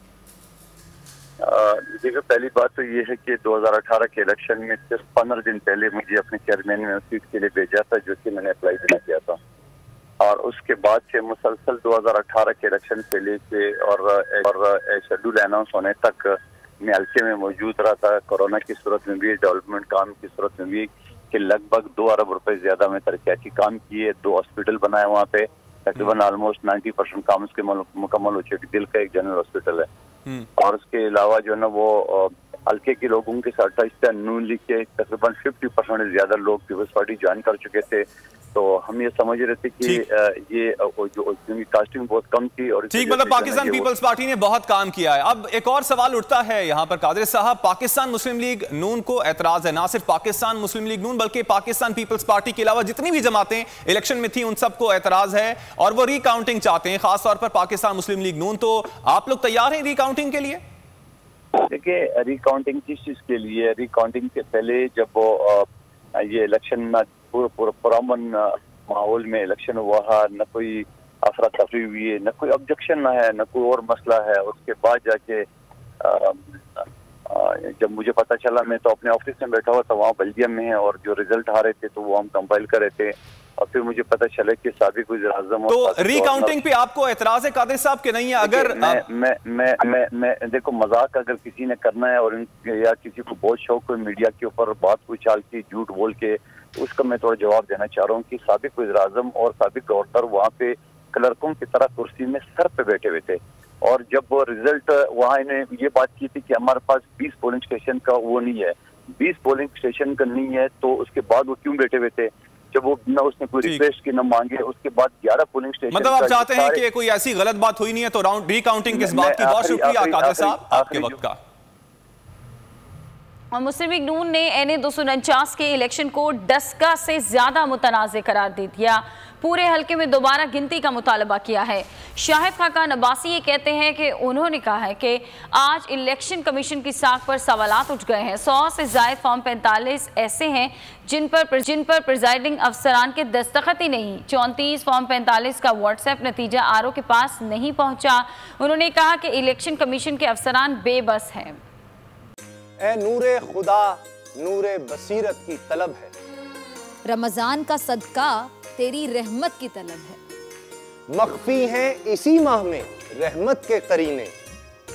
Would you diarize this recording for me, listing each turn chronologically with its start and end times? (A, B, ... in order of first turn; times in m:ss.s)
0:01.4-0:09.4 A
0:10.2-0:29.9 A
0:30.6-0:43.9 A
0:42.9-1:00.6 B
1:01.6-1:15.4 A
1:16.0-1:26.6 A
1:25.7-1:29.0 B
1:28.4-1:56.8 A
1:55.9-2:01.4 B
1:58.9-2:01.2 A
2:03.5-2:31.6 C
2:32.8-2:36.1 D
2:37.0-2:40.2 E
2:41.1-2:44.3 D